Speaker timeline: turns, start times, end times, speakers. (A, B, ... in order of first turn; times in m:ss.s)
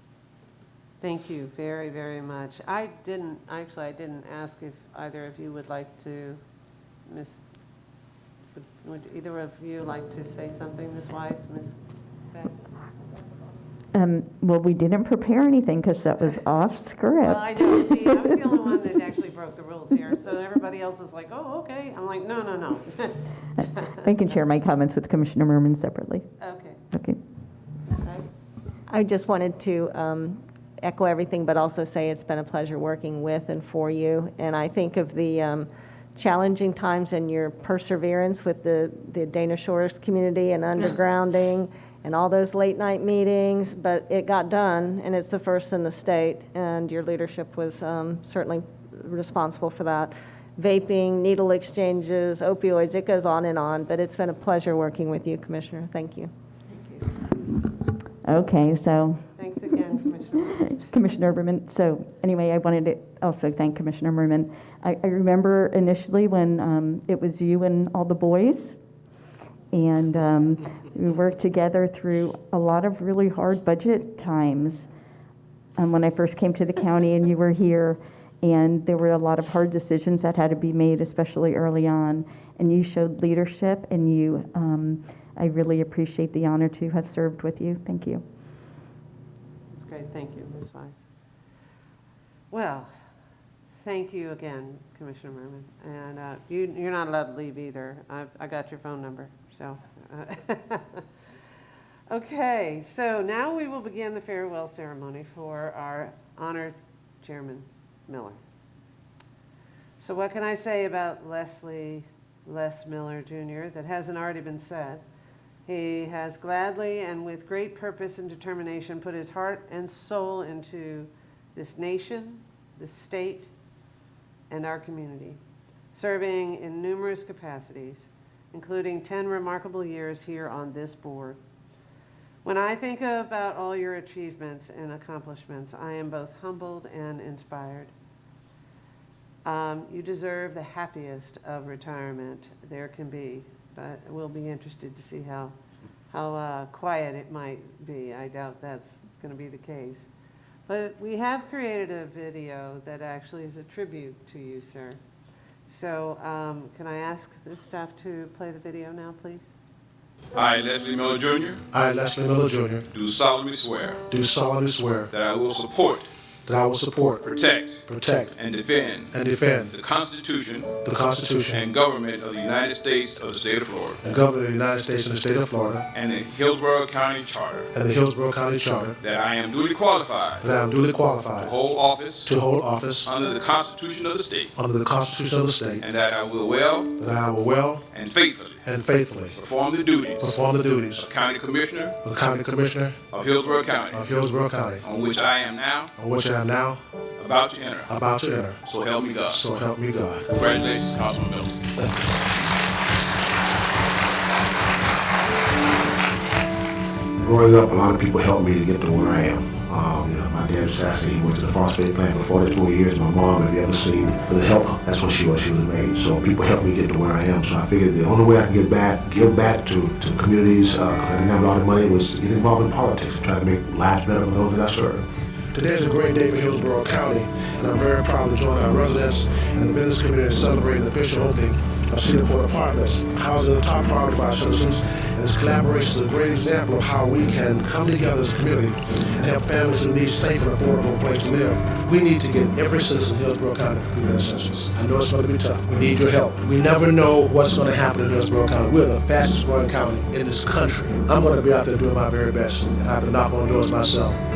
0:01.0-0:06.4 A
0:07.1-0:07.4 A
0:08.5-0:12.7 A
0:13.9-0:18.3 B
0:17.2-0:24.4 A
0:24.0-0:26.3 B
0:26.4-0:26.8 A
0:26.9-0:27.2 B
0:27.9-0:28.3 A
0:28.9-0:56.3 C
0:58.2-0:59.9 B
0:59.4-1:00.6 A
1:00.6-1:08.8 B
1:09.7-1:14.9 B
1:15.8-1:28.2 B
1:29.7-1:31.0 A
1:32.5-1:32.9 A
1:33.8-1:41.1 A
1:42.1-1:48.4 A
1:50.0-1:55.1 A
1:55.6-2:03.5 A
2:04.5-2:05.4 A
2:05.9-2:11.4 A
2:12.4-2:17.9 A
2:19.4-2:25.6 A
2:26.1-2:30.1 A
2:30.7-2:35.0 A
2:35.7-2:39.5 A
2:40.4-2:41.6 D
2:41.7-2:42.9 E
2:42.9-2:44.0 D
2:44.1-2:45.1 E
2:45.1-2:46.1 D
2:46.5-2:47.2 E
2:47.2-2:47.8 D
2:47.9-2:48.3 E
2:48.4-2:49.2 D
2:49.1-2:49.7 E
2:49.7-2:50.7 D
2:50.8-2:51.6 E
2:51.5-2:54.0 D
2:54.0-2:55.8 E
2:55.9-2:57.7 D
2:57.7-2:59.0 E
2:59.0-3:00.4 D
3:00.4-3:01.5 E
3:01.4-3:02.3 D
3:02.2-3:03.1 E
3:03.0-3:04.5 D
3:04.6-3:05.8 E
3:05.8-3:06.9 D
3:07.0-3:07.8 E
3:07.9-3:08.6 D
3:08.6-3:09.4 E
3:09.4-3:10.4 D
3:10.2-3:11.1 E
3:11.0-3:12.0 D
3:12.0-3:13.0 E
3:13.1-3:14.0 D
3:13.9-3:14.8 E
3:14.8-3:15.9 D
3:16.0-3:16.8 E
3:17.2-3:17.9 D
3:17.9-3:18.6 E
3:18.6-3:19.5 D
3:19.3-3:20.3 E
3:20.3-3:21.6 D
3:21.8-3:22.1 E
3:27.2-3:45.0 F
3:45.5-4:14.2 E